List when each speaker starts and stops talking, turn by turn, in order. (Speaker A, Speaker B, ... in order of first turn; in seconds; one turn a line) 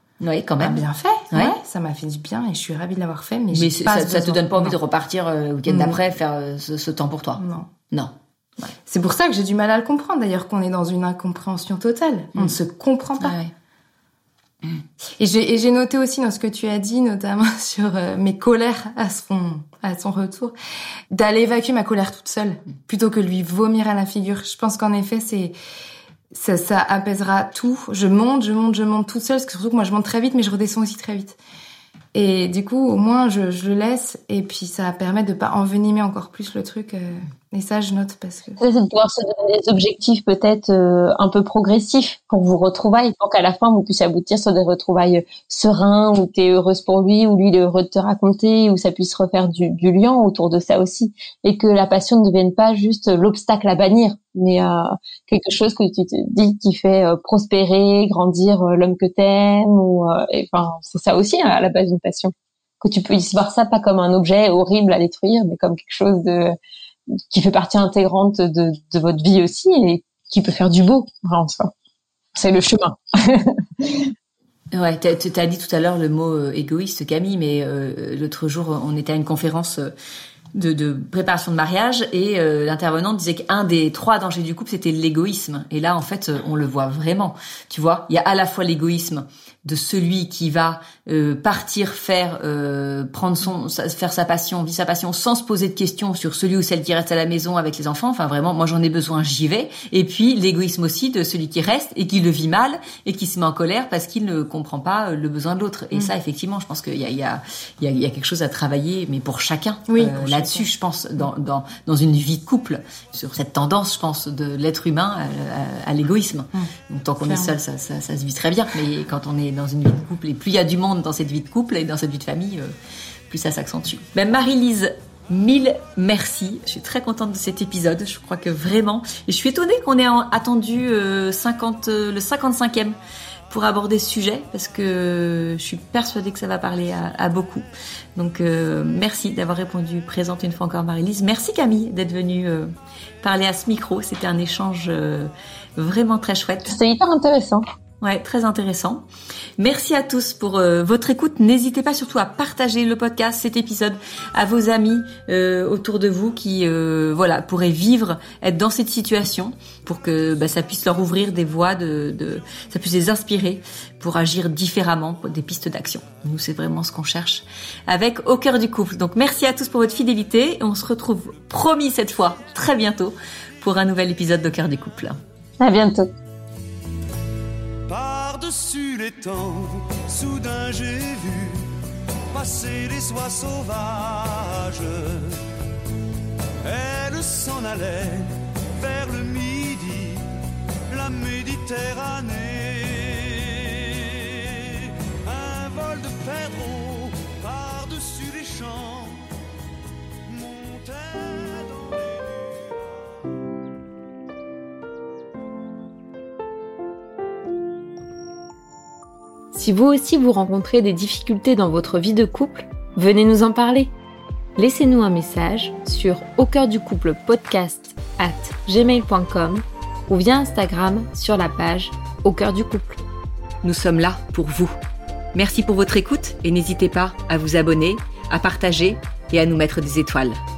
Speaker A: 0.2-1.6
Speaker B: 0.6-4.8
Speaker A: 3.5-8.7
Speaker B: 5.7-6.0
Speaker B: 7.4-7.7
Speaker B: 8.9-13.4
Speaker A: 13.2-13.5
Speaker B: 15.2-20.5
Speaker B: 21.1-25.5
Speaker B: 26.3-31.4
Speaker B: 32.1-38.6
Speaker C: 38.6-66.6
Speaker C: 67.3-71.7
Speaker C: 72.3-74.1
Speaker A: 74.7-79.9
Speaker A: 80.5-122.7
Speaker B: 109.9-110.7
Speaker B: 117.2-117.5
Speaker A: 123.3-132.9
Speaker A: 133.5-137.6
Speaker A: 138.2-142.7
Speaker A: 143.2-146.8
Speaker C: 146.7-147.7
Speaker A: 148.0-149.0
Speaker A: 149.6-175.2
Speaker C: 175.6-176.1
Speaker D: 177.9-181.7
Speaker D: 182.3-185.4
Speaker D: 186.6-190.3
Speaker D: 190.9-199.3
Speaker D: 200.3-203.2
Speaker E: 209.5-213.9
Speaker E: 214.6-223.0
Speaker A: 223.6-224.8
Speaker A: 225.3-230.4